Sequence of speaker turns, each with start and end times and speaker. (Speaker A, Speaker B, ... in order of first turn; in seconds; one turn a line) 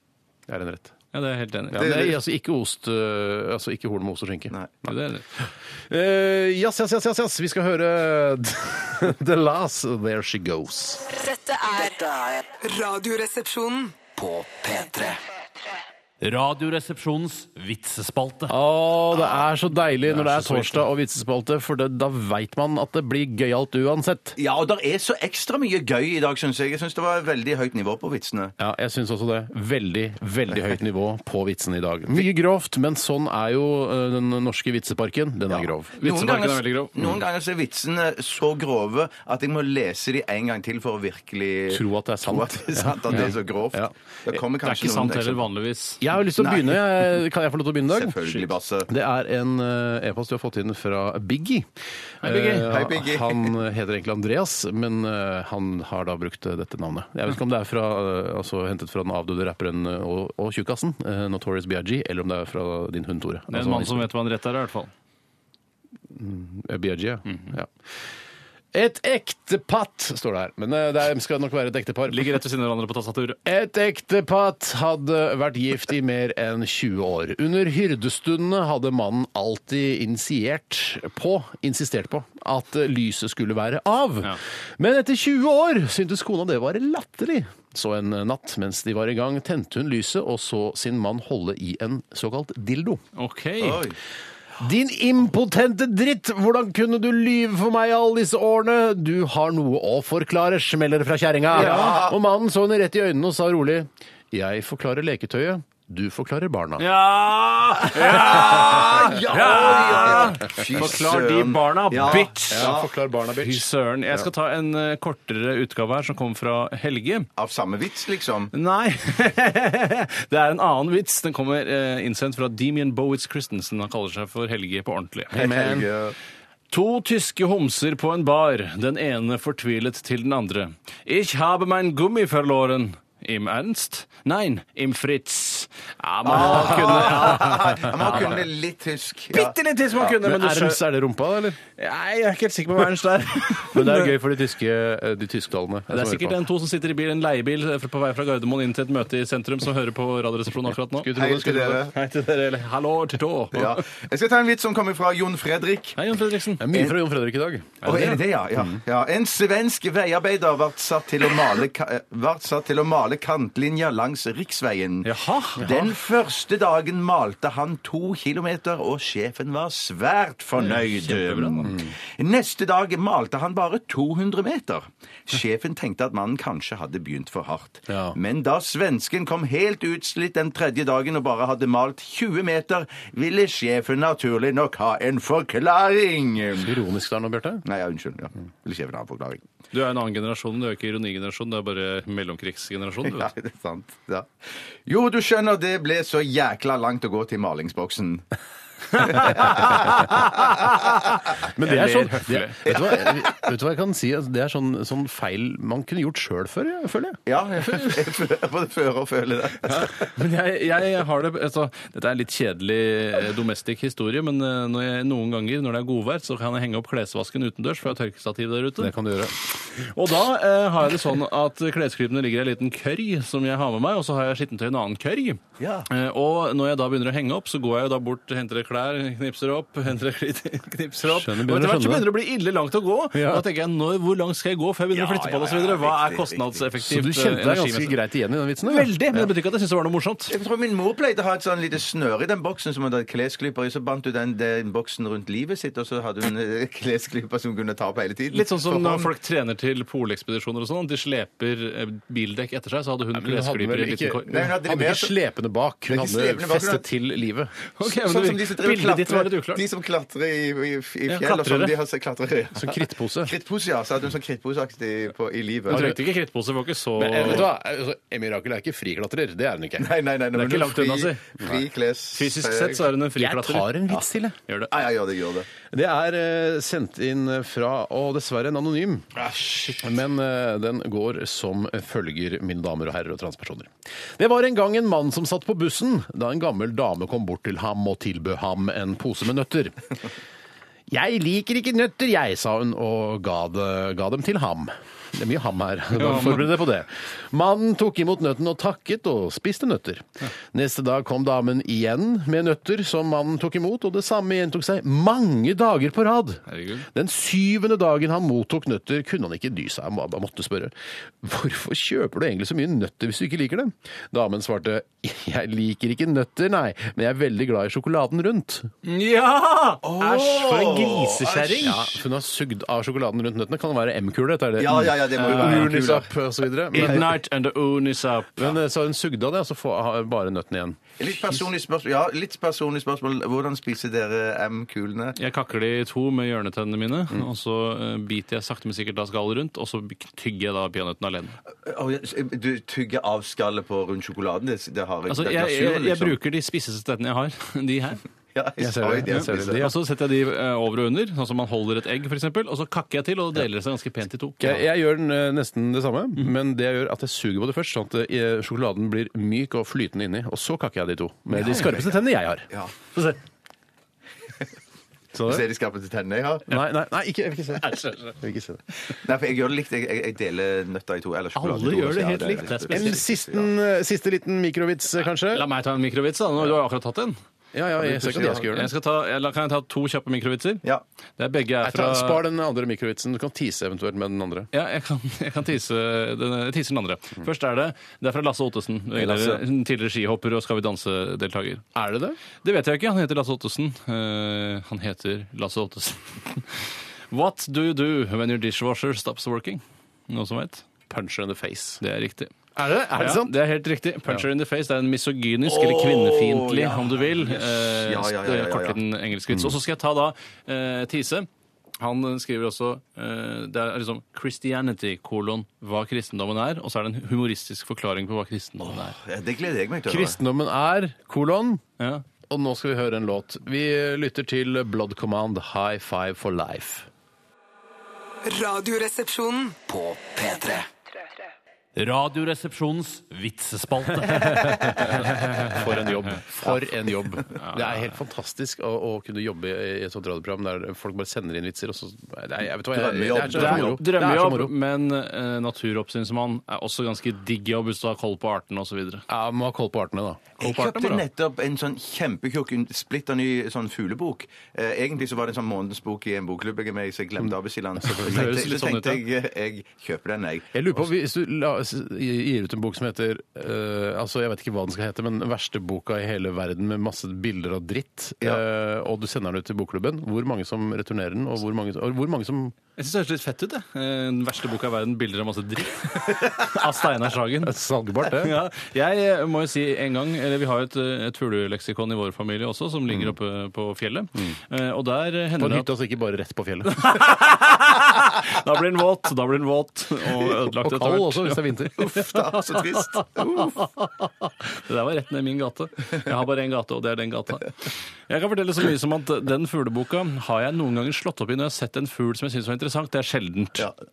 Speaker A: 0.5-0.9
Speaker B: 1.1-1.9
Speaker A: 1.7-11.1
Speaker C: 1.7-2.2
Speaker B: 4.8-5.2
Speaker D: 11.1-15.1
Speaker E: 14.2-15.2
Speaker E: 16.2-18.5
Speaker A: 18.5-24.4
Speaker B: 20.1-20.8
Speaker C: 24.4-28.5
Speaker A: 28.6-35.9
Speaker C: 35.5-45.5
Speaker B: 36.0-37.0
Speaker A: 41.7-43.9
Speaker B: 44.6-46.0
Speaker A: 46.0-51.7
Speaker C: 46.4-47.0
Speaker C: 47.9-48.9
Speaker A: 52.2-64.1
Speaker B: 52.2-52.7
Speaker C: 52.5-53.6
Speaker B: 63.5-64.9
Speaker A: 66.1-67.7
Speaker A: 68.7-72.3
Speaker B: 72.1-73.4
Speaker A: 73.4-93.0
Speaker B: 93.2-93.8
Speaker C: 93.6-94.0
Speaker A: 94.6-106.9
Speaker B: 101.5-102.0
Speaker C: 101.5-102.2
Speaker B: 106.8-112.8
Speaker C: 107.9-112.9
Speaker A: 108.2-109.0
Speaker A: 112.5-114.3
Speaker B: 113.4-117.3
Speaker C: 117.4-118.5
Speaker B: 118.5-125.4
Speaker C: 125.3-126.2
Speaker A: 125.3-125.9
Speaker B: 126.7-138.4
Speaker C: 136.2-139.5
Speaker A: 136.4-138.2
Speaker B: 139.3-140.8
Speaker A: 140.0-141.6
Speaker B: 141.7-144.1
Speaker A: 143.6-146.4
Speaker B: 145.9-151.1
Speaker A: 150.9-151.9
Speaker C: 151.1-151.9
Speaker B: 151.9-153.8
Speaker C: 153.5-156.0
Speaker B: 155.9-156.7
Speaker A: 156.6-158.2
Speaker C: 157.8-186.8
Speaker B: 157.8-158.1
Speaker B: 165.0-165.9
Speaker B: 170.6-171.8
Speaker A: 171.6-171.9
Speaker A: 177.9-178.2
Speaker A: 186.6-187.6
Speaker C: 187.6-189.4
Speaker B: 189.7-193.3
Speaker C: 193.0-194.3
Speaker C: 194.8-198.2
Speaker B: 198.9-202.7
Speaker C: 199.0-200.1
Speaker A: 201.5-207.2
Speaker C: 202.7-203.3
Speaker C: 207.2-209.9
Speaker B: 209.6-218.9
Speaker A: 218.8-219.3
Speaker B: 219.6-238.0
Speaker C: 225.6-225.9
Speaker A: 231.0-232.1
Speaker A: 233.1-233.4
Speaker C: 234.9-236.6
Speaker A: 236.8-238.9
Speaker B: 238.6-240.3
Speaker C: 240.3-249.1
Speaker B: 248.3-254.3
Speaker A: 253.1-257.5
Speaker C: 254.2-255.1
Speaker C: 255.9-256.9
Speaker B: 257.8-259.6
Speaker C: 257.8-265.9
Speaker B: 261.1-261.8
Speaker A: 262.5-263.3
Speaker B: 265.7-267.4
Speaker A: 265.7-266.0
Speaker A: 267.0-269.9
Speaker C: 269.8-272.9
Speaker B: 270.3-271.2
Speaker B: 272.1-273.8
Speaker A: 273.1-274.4
Speaker C: 274.7-275.5
Speaker A: 275.7-279.1
Speaker C: 279.2-279.8
Speaker A: 279.8-289.9
Speaker A: 290.9-318.7
Speaker B: 295.9-296.5
Speaker B: 306.5-306.9
Speaker B: 318.8-321.9
Speaker C: 319.8-321.8
Speaker A: 321.6-327.1
Speaker C: 324.6-326.1
Speaker B: 325.1-325.7
Speaker B: 326.7-328.6
Speaker C: 326.8-327.1
Speaker A: 328.4-330.9
Speaker C: 331.0-335.2
Speaker B: 335.1-341.4
Speaker C: 341.6-346.2
Speaker B: 345.1-348.0
Speaker C: 348.3-349.7
Speaker A: 348.6-349.8
Speaker B: 349.1-354.5
Speaker A: 354.4-362.5
Speaker B: 361.4-361.7
Speaker C: 361.4-361.8
Speaker A: 365.1-365.4
Speaker C: 365.2-366.6
Speaker A: 366.5-368.6
Speaker B: 367.6-368.1
Speaker C: 368.9-373.5
Speaker B: 371.4-373.0
Speaker A: 372.7-375.5
Speaker B: 375.2-377.2
Speaker A: 377.5-378.7
Speaker C: 377.8-378.5
Speaker B: 378.1-380.6
Speaker B: 381.2-382.2
Speaker A: 381.6-384.5
Speaker B: 384.5-391.6
Speaker C: 388.9-389.4
Speaker A: 391.7-392.2
Speaker B: 392.4-400.6
Speaker A: 400.9-401.8
Speaker B: 401.8-402.3
Speaker A: 402.5-403.4
Speaker B: 402.9-411.3
Speaker C: 405.5-408.8
Speaker B: 411.8-418.9
Speaker C: 418.7-420.2
Speaker A: 419.9-421.6
Speaker B: 421.8-422.0
Speaker A: 422.3-426.9
Speaker D: 428.2-429.6
Speaker E: 429.7-430.7
Speaker E: 431.8-434.5
Speaker B: 433.6-435.8
Speaker A: 434.1-444.5
Speaker B: 437.4-437.9
Speaker C: 442.7-443.8
Speaker B: 443.3-449.0
Speaker A: 449.1-450.3
Speaker C: 450.4-460.6
Speaker B: 450.4-451.0
Speaker A: 457.8-458.2
Speaker B: 457.9-459.0
Speaker A: 460.5-472.6
Speaker B: 472.8-485.7
Speaker A: 477.4-478.3
Speaker A: 485.4-486.9
Speaker B: 486.7-503.7
Speaker A: 490.5-491.9
Speaker C: 491.8-493.5